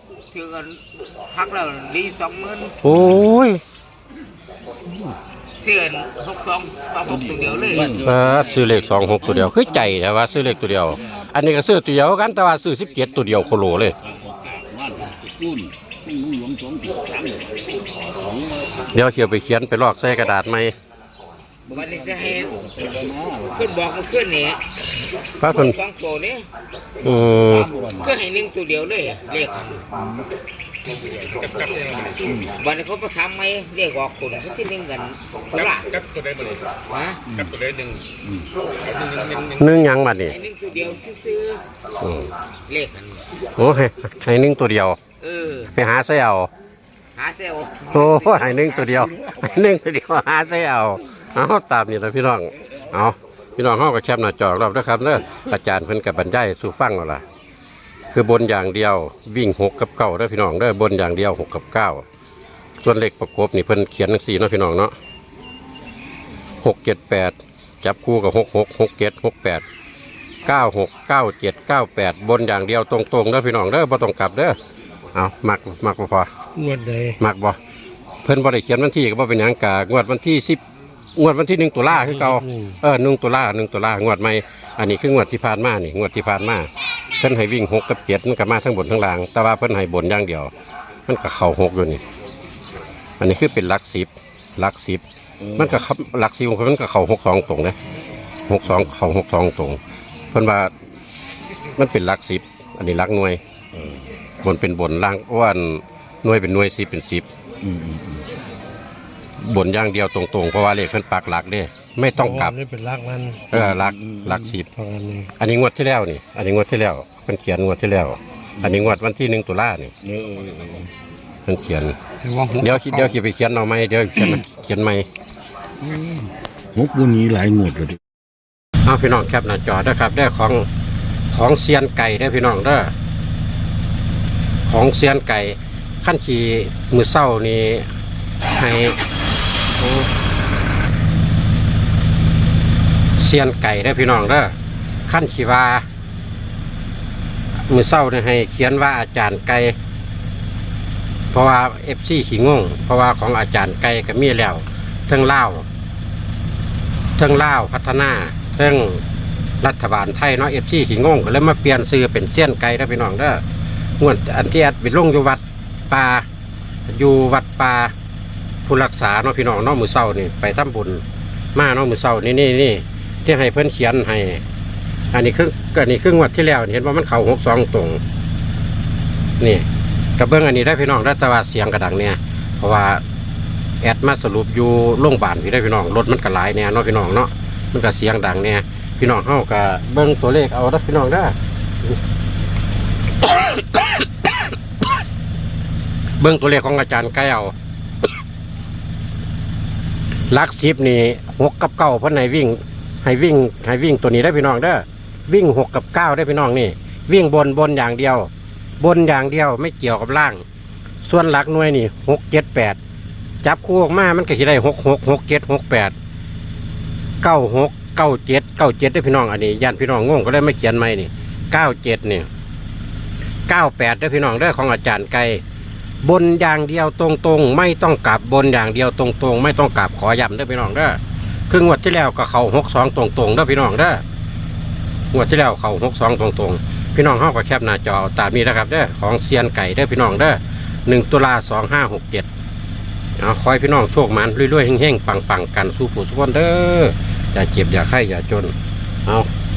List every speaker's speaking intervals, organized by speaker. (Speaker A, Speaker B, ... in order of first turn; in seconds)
Speaker A: 0.3-2.8, 5.6-8.1, 21.7-22.6, 23.5-24.6, 25.5-26.5, 28.0-29.8, 31.5-36.1, 36.9-37.2, 39.0-39.3, 40.2-41.6, 42.7-43.2, 45.2-45.7, 47.1-49.0
Speaker B: 2.8-3.6, 8.0-13.9, 18.9-20.7, 25.4-25.8, 27.0-27.7, 39.5-40.3, 42.0-42.3, 43.6-45.0, 45.7-46.5, 47.9-57.2, 58.1-62.0, 62.8-64.9, 66.6-69.6, 70.4-74.6, 75.1-76.3, 77.2-77.6, 78.2-80.6, 81.2-90.5, 91.1-92.0, 93.2-95.0, 95.5-97.7, 98.5-99.8, 100.3-100.7, 101.8-103.4, 104.4-107.3, 109.4-112.6, 113.5-119.9, 121.5-122.0, 122.5-125.1, 128.8-130.7, 131.3-132.9, 134.7-137.8, 138.5-139.0, 139.8-140.1, 143.2-144.5, 145.1-145.8, 147.7-149.7, 151.3-155.7, 157.2-159.0, 159.6-163.4, 164.0-166.2, 166.9-167.9, 168.7-171.0, 171.5-174.4, 175.1-178.0, 179.4-179.6, 180.2-183.0, 183.8-192.0, 193.3-193.8, 196.2-197.5, 200.3-208.3, 208.8-210.4, 211.0-212.8, 213.4-215.9, 217.2-222.3, 223.5-225.4, 226.0-234.0, 235.1-242.3, 243.2-248.5
Speaker C: 2.9-3.2, 7.1-9.9, 14.1-17.5, 18.2-18.7, 21.7-23.7, 27.1-28.1, 29.9-30.3, 37.3-37.7, 95.4-95.8, 107.6-108.2, 113.5-114.5, 118.6-118.8, 120.0-120.9, 125.8-128.0
Speaker D: 76.5-77.2, 82.0-82.8, 112.4-113.5, 114.7-115.2, 122.2-123.0